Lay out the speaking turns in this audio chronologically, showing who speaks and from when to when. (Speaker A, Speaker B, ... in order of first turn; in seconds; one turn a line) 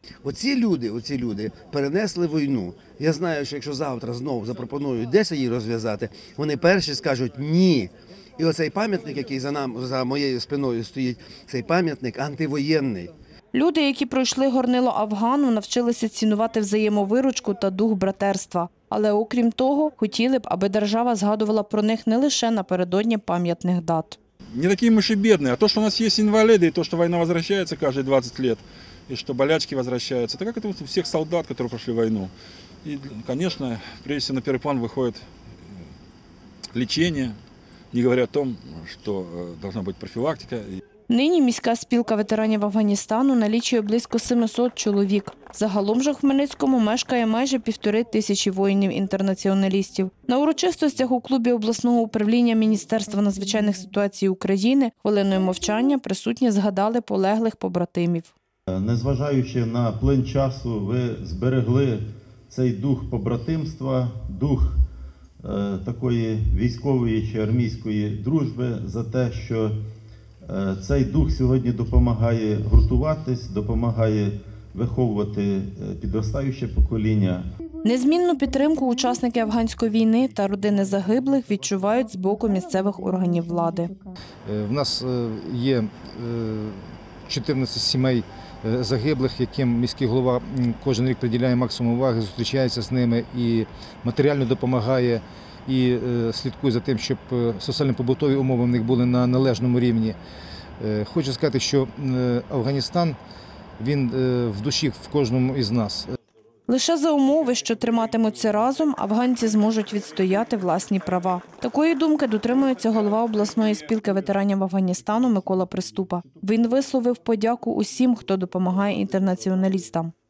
Speaker A: 0.2-13.1
Speaker B: 13.5-24.2
Speaker C: 24.5-32.3
Speaker C: 32.8-35.2
Speaker C: 36.7-37.4
Speaker C: 37.9-40.8
Speaker B: 41.1-58.3
Speaker D: 58.7-64.8
Speaker D: 65.4-69.8
Speaker D: 70.5-77.5
Speaker B: 77.8-83.9
Speaker E: 84.5-100.2
Speaker E: 100.8-103.2
Speaker E: 103.8-106.1
Speaker B: 106.7-120.1